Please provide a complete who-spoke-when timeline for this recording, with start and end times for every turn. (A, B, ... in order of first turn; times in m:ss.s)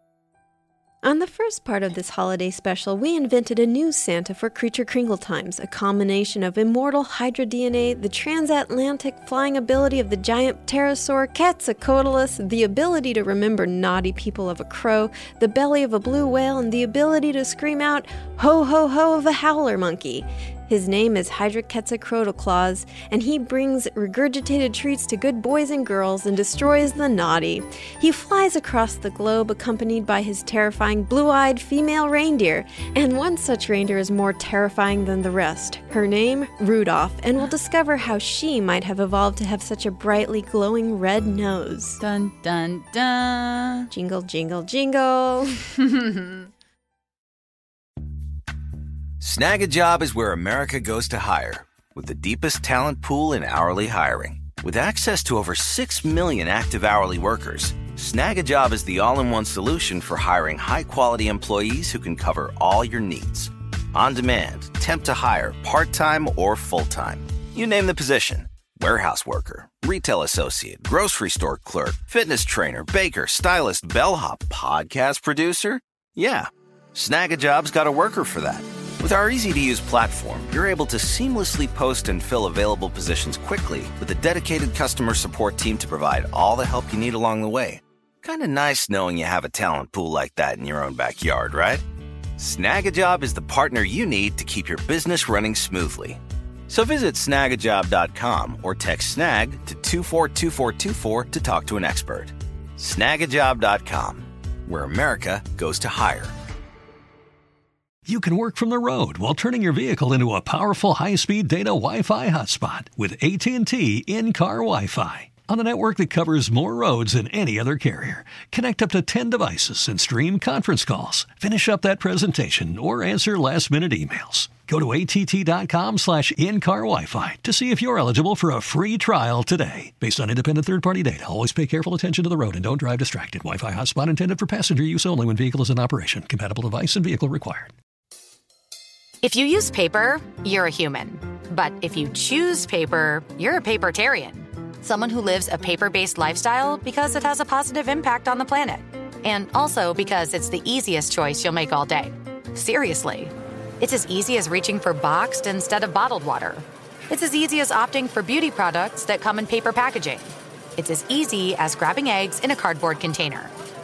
0:01.0-0:42.0 A
0:42.0-0:43.9 B
0:43.9-0:45.7 A
0:45.8-0:46.4 B
0:49.2-1:31.8 C
1:32.4-1:46.3 C
1:48.0-2:17.7 D
2:19.2-2:43.5 E